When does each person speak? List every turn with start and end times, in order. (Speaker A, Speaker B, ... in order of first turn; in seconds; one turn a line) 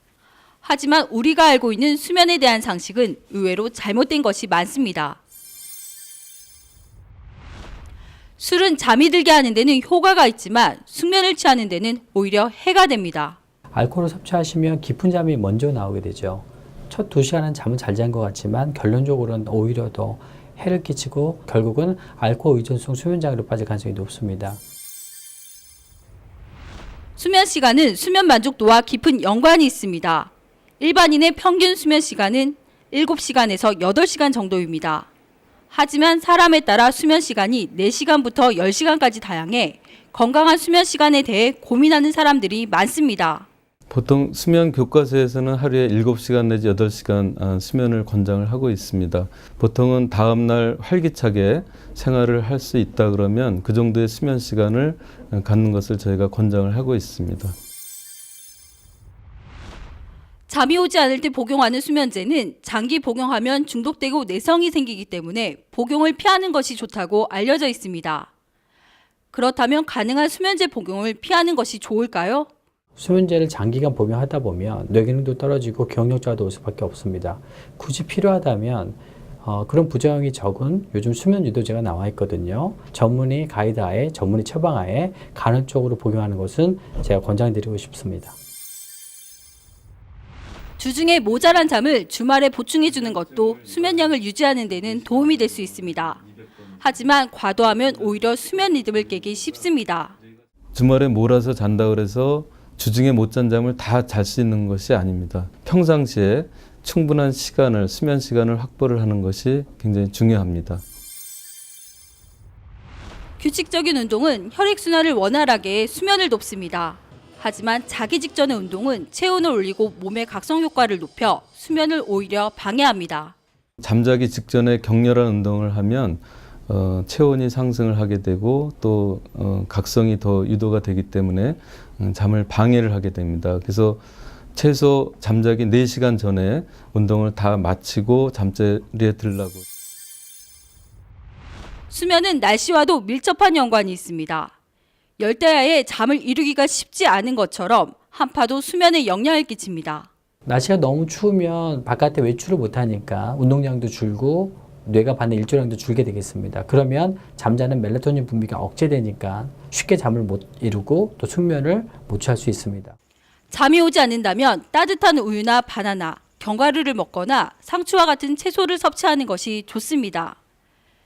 Speaker A: 0.6-5.2
Speaker A: 8.4-13.4
Speaker B: 13.7-24.6
Speaker A: 27.2-35.1
Speaker A: 35.7-43.5
Speaker C: 43.9-57.5
Speaker A: 60.5-68.3
Speaker A: 69.3-72.5
Speaker B: 73.0-88.3
Speaker A: 90.8-100.2
Speaker C: 100.7-110.8
Speaker A: 113.4-123.3
Speaker C: 123.8-134.0
Speaker C: 134.6-139.7
Speaker A: 141.9-144.5
Speaker A: 145.2-150.1
Speaker B: 150.4-162.9
Speaker A: 163.5-170.4